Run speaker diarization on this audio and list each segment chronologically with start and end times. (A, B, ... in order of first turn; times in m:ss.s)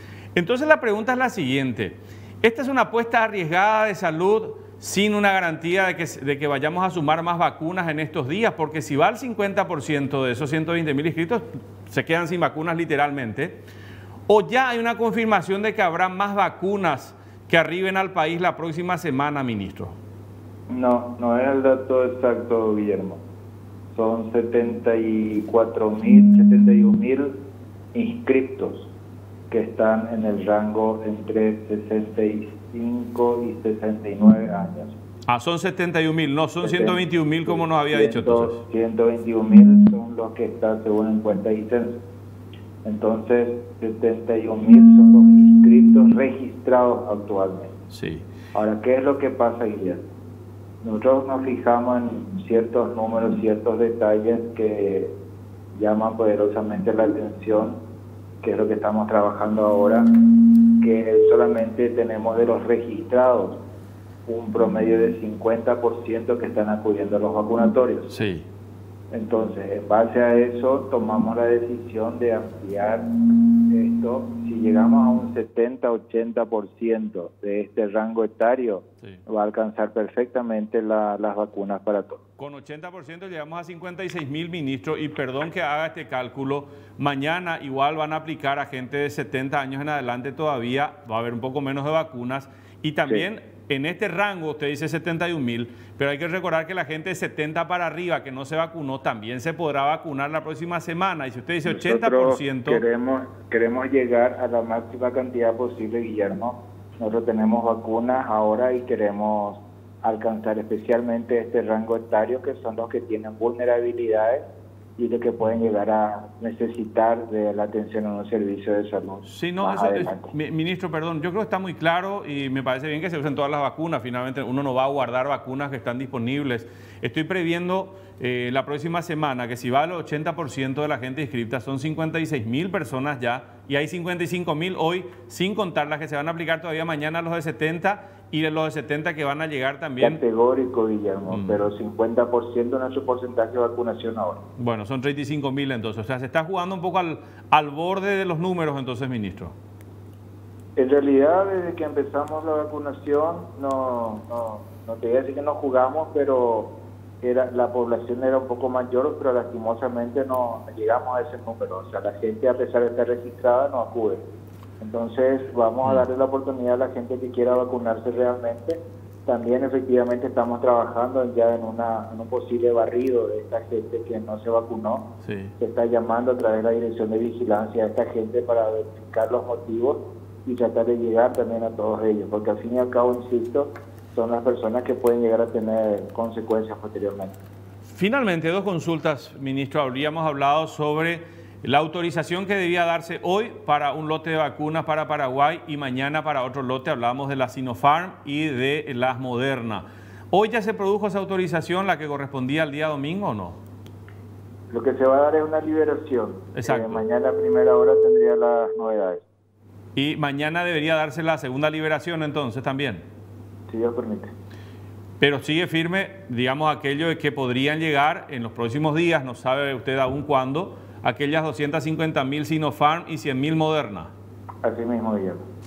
0:00.3-0:13.6 A
0:14.3-0:20.0 A
0:20.7-0:23.2 B
0:23.9-0:27.3 B
0:27.9-0:28.9 B
0:29.5-0:34.9 B
0:35.3-0:38.6 A
0:36.6-0:42.0 B
0:42.8-0:47.7 B
0:47.9-0:48.3 A
0:48.5-0:50.0 B
0:50.8-0:55.1 B
0:55.7-0:57.8 B
0:58.4-1:00.1 B
1:00.8-1:03.6 B
1:04.3-1:08.1 B
1:08.1-1:08.5 A
1:09.1-1:13.1 B
1:13.7-1:22.2 B
1:22.4-1:42.8 A
1:41.6-1:54.4 B
1:55.0-2:00.3 B
1:59.2-2:20.2 A
2:20.0-2:24.4 B
2:21.3-2:21.7 A
2:24.6-2:29.6 A
2:30.8-2:44.2 B
2:44.8-2:55.0 B
2:55.2-2:55.5 A
2:55.6-3:07.4 B
3:07.9-3:23.6 A
3:24.7-3:29.2 B
3:26.5-3:27.0 A
3:30.0-3:33.0 A
3:33.7-3:34.3 B
3:35.2-3:44.1 A
3:44.6-3:45.4 B